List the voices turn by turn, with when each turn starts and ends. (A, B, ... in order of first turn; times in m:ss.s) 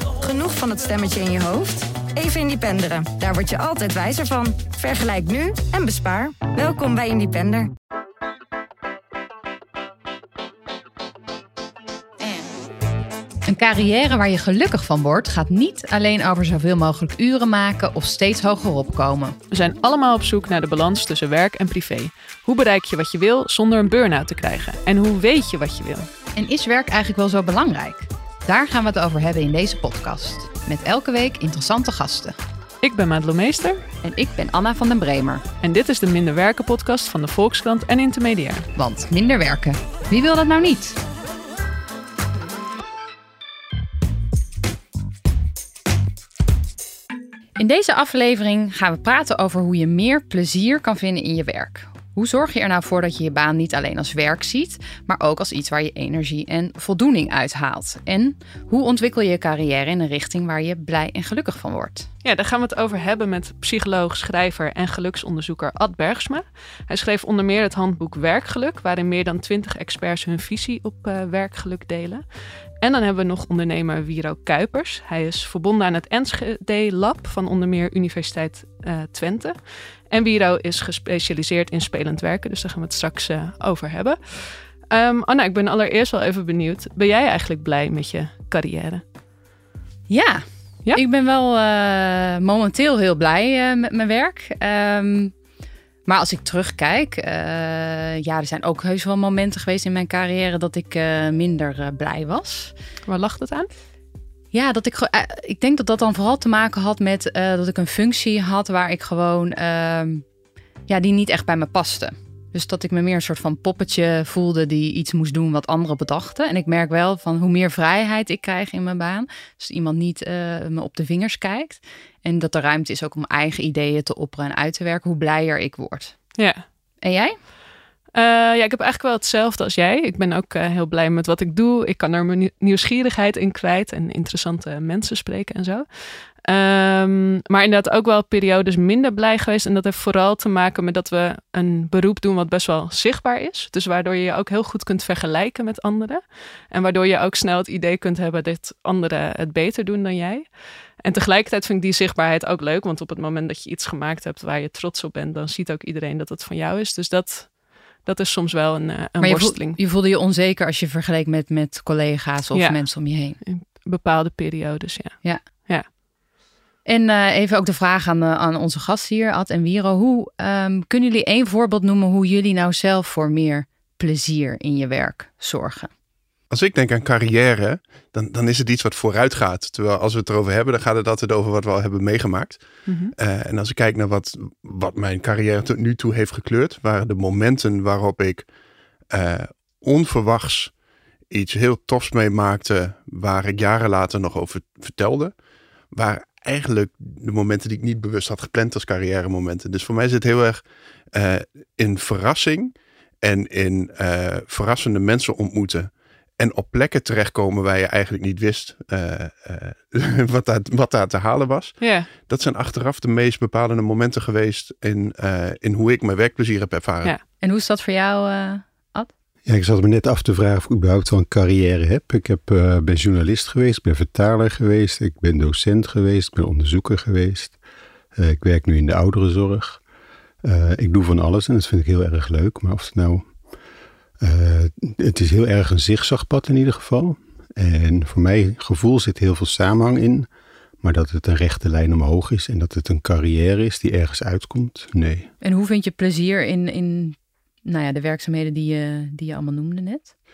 0:00.2-0:07.7 A
0:13.5-0:19.4 B
0:19.5-0:26.1 C
0:26.4-0:32.4 B
0:32.8-0:33.8 C
0:34.0-0:35.4 B
0:35.6-0:38.7 C
0:38.8-0:41.0 B
0:47.6-1:02.1 B
1:02.2-1:12.2 C
1:12.8-1:19.6 C
1:20.1-1:29.0 C
1:30.1-1:35.3 B
1:36.1-1:42.7 B
1:43.1-1:43.7 C
1:44.5-1:50.2 B
1:50.9-2:06.2 B
2:06.4-2:06.6 C
2:07.0-2:07.4 B
2:08.1-2:30.5 C
2:31.0-2:39.8 C
2:39.2-2:43.4 B
2:42.5-2:42.8 C
2:43.4-2:45.9 C
2:46.8-2:55.9 B
2:56.5-3:02.6 D
3:02.9-3:03.1 C
3:03.2-3:08.5 D
3:09.1-3:10.8 D
3:11.3-3:15.3 D
3:15.9-3:37.2 D
3:31.8-3:32.1 C
3:37.4-3:39.1 B
3:39.5-3:47.6 E
3:48.2-3:49.8 E
3:50.4-3:53.3 E
3:54.2-4:00.3 E
4:00.8-4:05.3 E
4:05.4-4:10.1 B